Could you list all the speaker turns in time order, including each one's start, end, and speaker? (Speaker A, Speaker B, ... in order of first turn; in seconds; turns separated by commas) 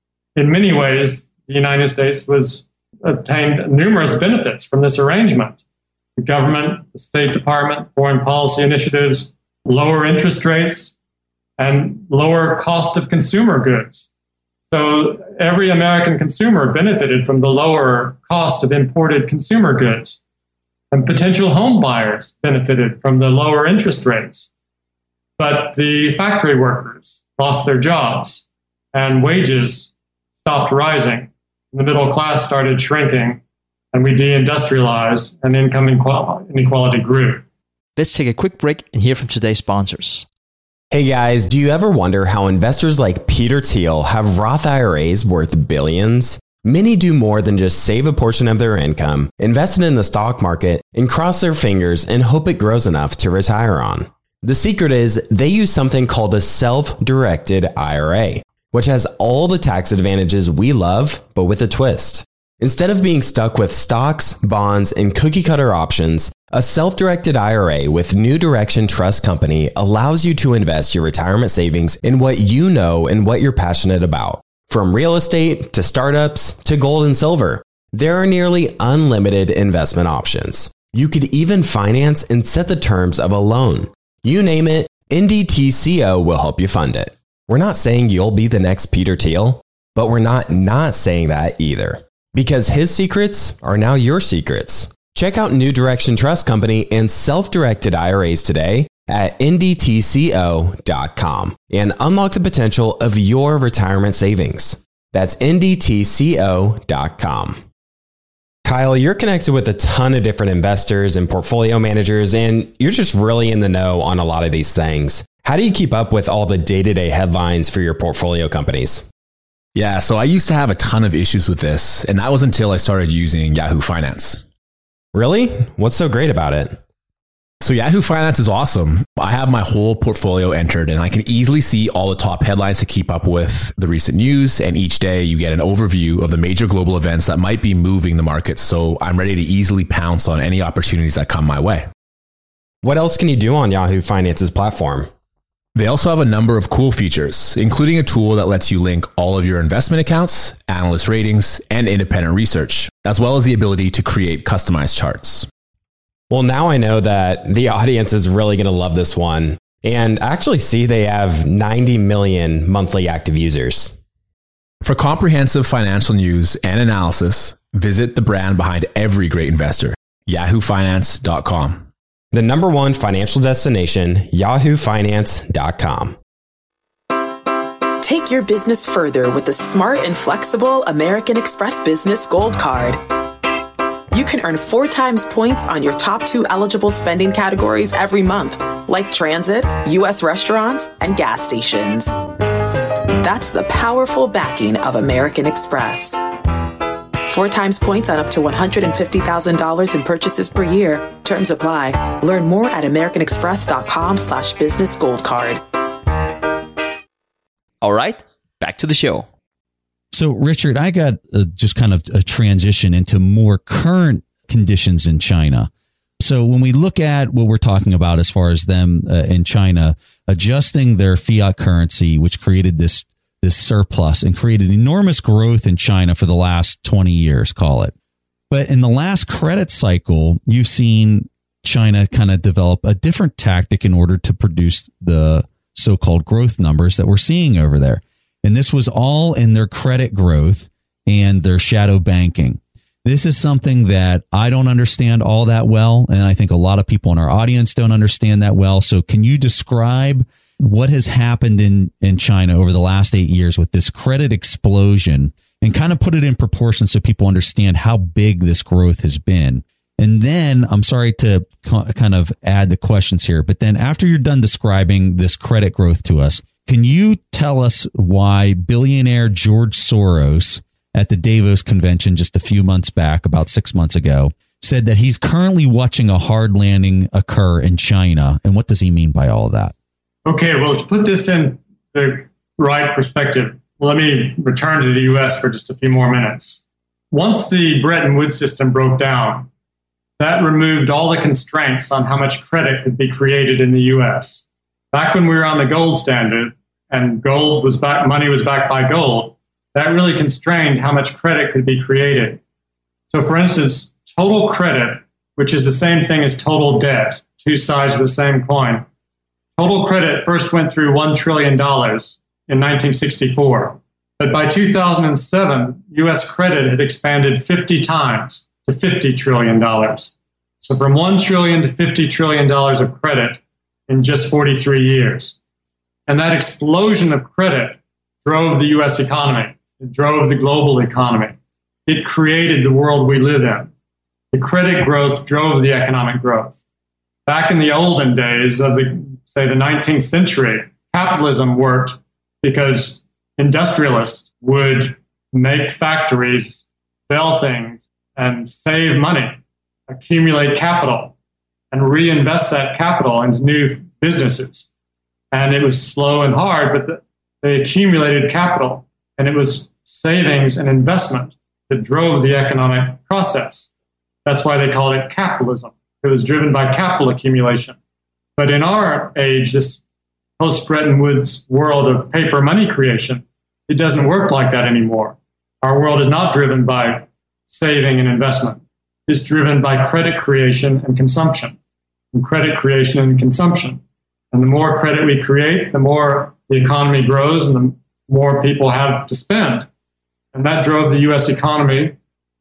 Speaker A: 0.3-5.6, Speaker A: 6.2-10.9, Speaker A: 11.6-14.1, Speaker A: 14.7-20.2, Speaker A: 20.9-24.5, Speaker A: 25.4-33.4, Speaker A: 33.9-37.4, Speaker B: 38.0-40.2, Speaker C: 40.9-107.6, Speaker C: 108.6-119.0, Speaker D: 119.7-124.4, Speaker C: 125.1-126.8, Speaker D: 127.6-141.8, Speaker C: 142.8-145.1, Speaker D: 145.7-155.5, Speaker C: 156.3-163.9, Speaker D: 164.8-171.8, Speaker C: 172.3-176.2, Speaker E: 178.0-183.0, Speaker E: 184.1-192.1, Speaker E: 193.2-196.2, Speaker E: 197.2-205.6, Speaker B: 207.8-209.2, Speaker F: 210.1-227.9, Speaker F: 228.5-279.7, Speaker A: 280.2-289.5, Speaker A: 290.2-302.4, Speaker A: 303.1-308.9, Speaker A: 309.6-325.4, Speaker A: 326.1-333.7, Speaker A: 334.3-336.6, Speaker A: 337.2-351.1, Speaker A: 351.7-354.7, Speaker A: 355.3-363.7, Speaker A: 364.2-367.8, Speaker A: 368.4-369.8, Speaker A: 370.4-381.6, Speaker A: 382.1-383.8, Speaker A: 384.3-389.7, Speaker A: 390.3-391.9